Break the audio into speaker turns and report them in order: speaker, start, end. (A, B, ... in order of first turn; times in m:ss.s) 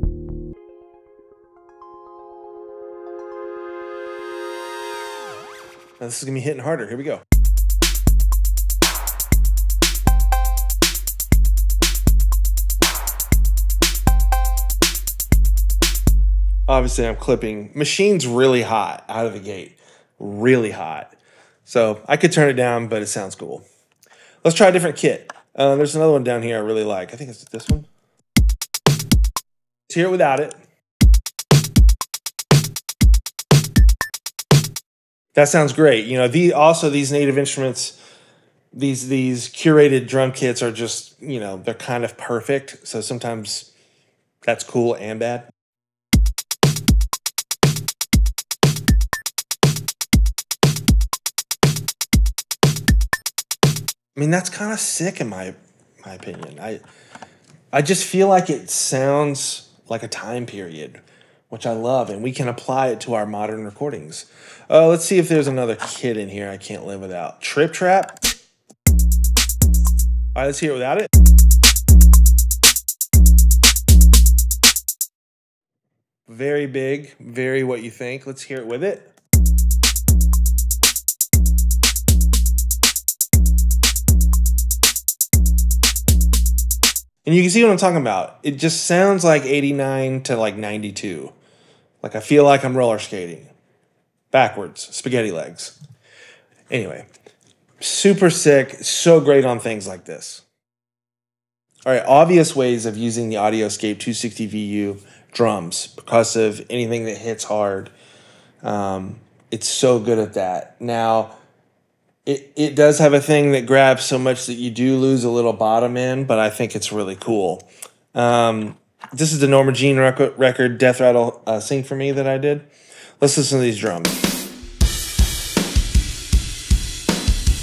0:06.0-0:07.2 A
0:16.7-0:23.6 A
0:24.4-0:27.9 A
0:29.9-0:30.6 A
0:35.3-0:38.0 A
0:38.7-0:43.7 A
0:44.4-0:45.5 A
0:54.1-0:56.8 A
0:57.7-1:08.2 A
1:10.3-1:11.1 A
1:16.3-1:19.1 A
1:27.2-1:31.3 A
1:32.0-1:33.5 A
1:34.3-1:35.8 A
1:36.7-1:37.0 A
1:37.8-1:40.4 A
1:41.8-1:47.9 A
1:48.6-1:51.4 A
1:52.2-2:02.7 A
2:03.2-2:04.2 A